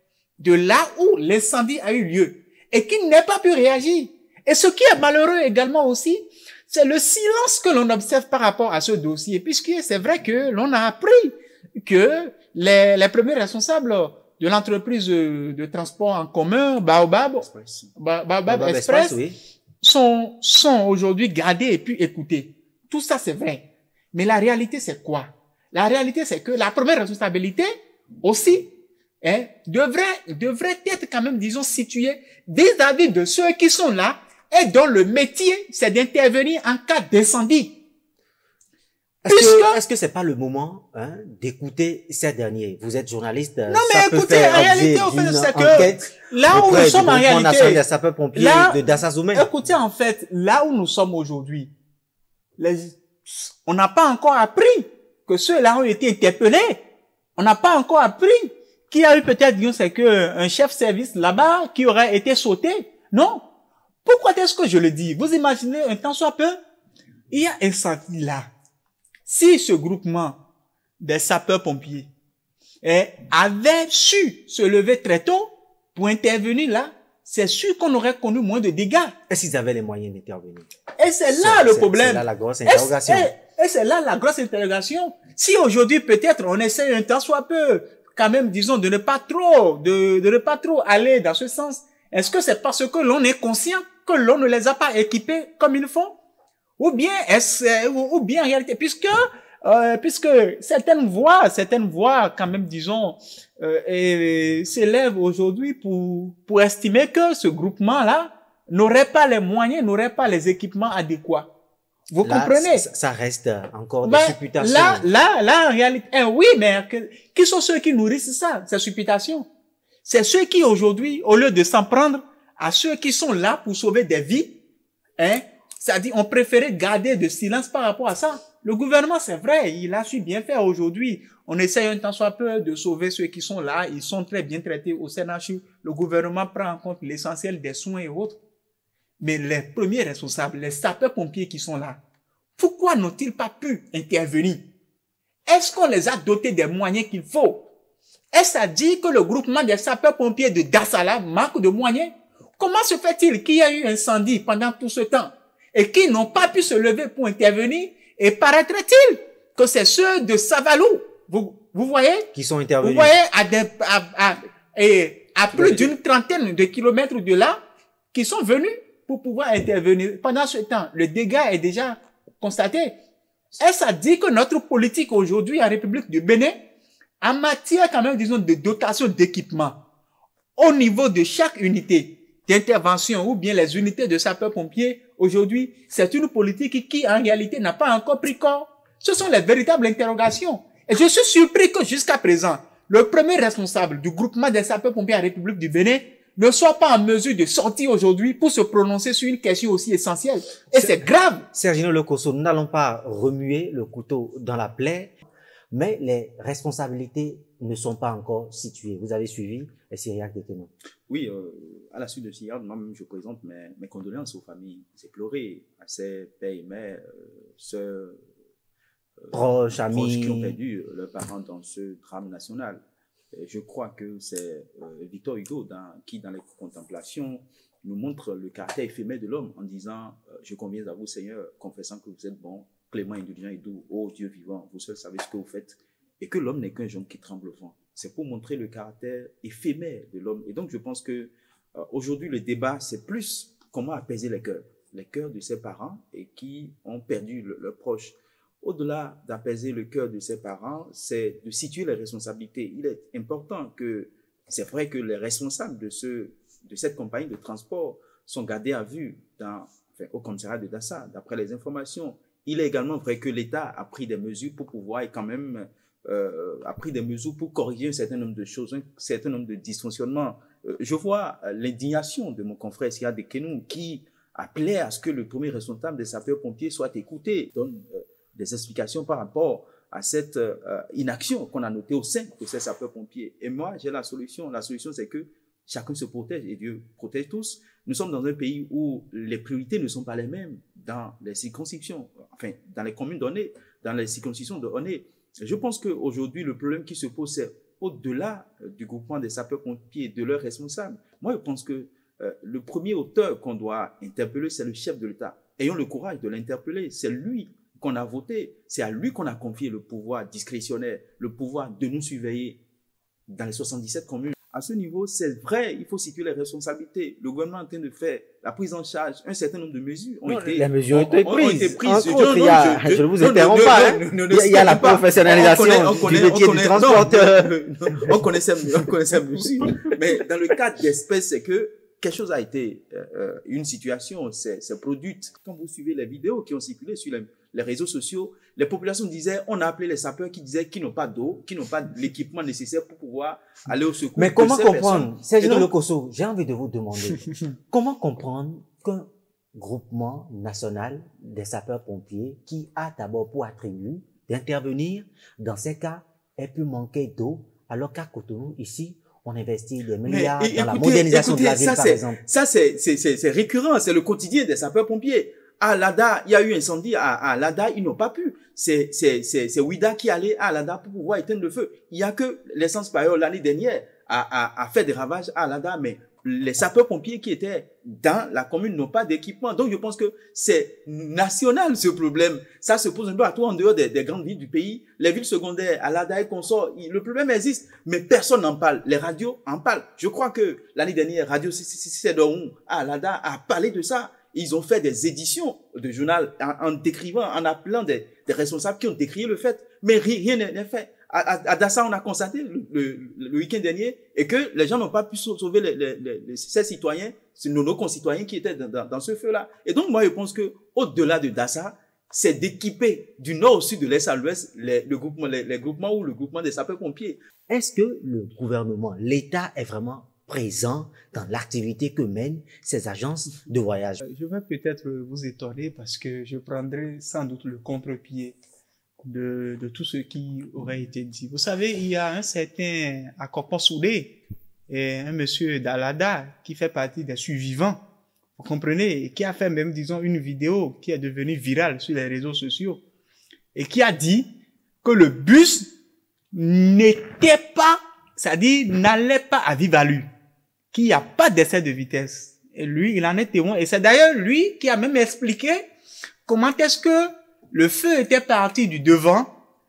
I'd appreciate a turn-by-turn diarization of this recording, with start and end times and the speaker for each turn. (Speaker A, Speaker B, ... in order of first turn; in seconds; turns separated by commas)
Speaker A: 0.4-19.2, Speaker B: 17.4-17.9, Speaker C: 18.5-19.4, Speaker A: 19.8-28.7, Speaker A: 29.2-37.8, Speaker C: 39.2-49.5, Speaker A: 39.3-39.8, Speaker A: 43.7-47.8, Speaker A: 48.4-48.8, Speaker A: 49.3-51.7, Speaker A: 52.6-56.8, Speaker A: 57.4-63.4, Speaker A: 64.0-66.6, Speaker A: 67.3-68.5, Speaker A: 69.3-70.4, Speaker A: 71.0-72.1, Speaker A: 72.8-79.2, Speaker C: 79.3-80.7, Speaker A: 81.0-96.2, Speaker C: 81.4-83.3, Speaker A: 96.8-111.5, Speaker A: 112.1-112.8, Speaker C: 112.2-115.1, Speaker A: 114.0-119.5, Speaker A: 120.0-124.5, Speaker A: 125.2-138.4, Speaker A: 139.2-142.0, Speaker A: 142.6-144.6, Speaker A: 145.5-147.6, Speaker A: 148.3-162.3, Speaker C: 162.3-163.2, Speaker A: 162.8-167.6, Speaker B: 165.5-166.0, Speaker A: 168.1-173.0, Speaker A: 173.6-176.6, Speaker A: 177.2-179.8, Speaker A: 180.6-201.5, Speaker C: 201.5-205.2, Speaker C: 205.7-210.7, Speaker B: 211.1-218.2, Speaker B: 219.2-222.8, Speaker C: 219.3-220.6, Speaker B: 223.3-312.6, Speaker B: 313.3-345.7, Speaker C: 320.2-328.2, Speaker C: 344.2-362.2, Speaker B: 360.1-417.2, Speaker C: 417.5-424.0, Speaker A: 424.0-428.4, Speaker A: 429.0-434.1, Speaker A: 434.7-437.8, Speaker A: 438.4-442.8, Speaker A: 443.5-444.3, Speaker A: 444.8-445.7, Speaker A: 446.3-450.1, Speaker A: 450.7-455.7, Speaker A: 456.3-459.3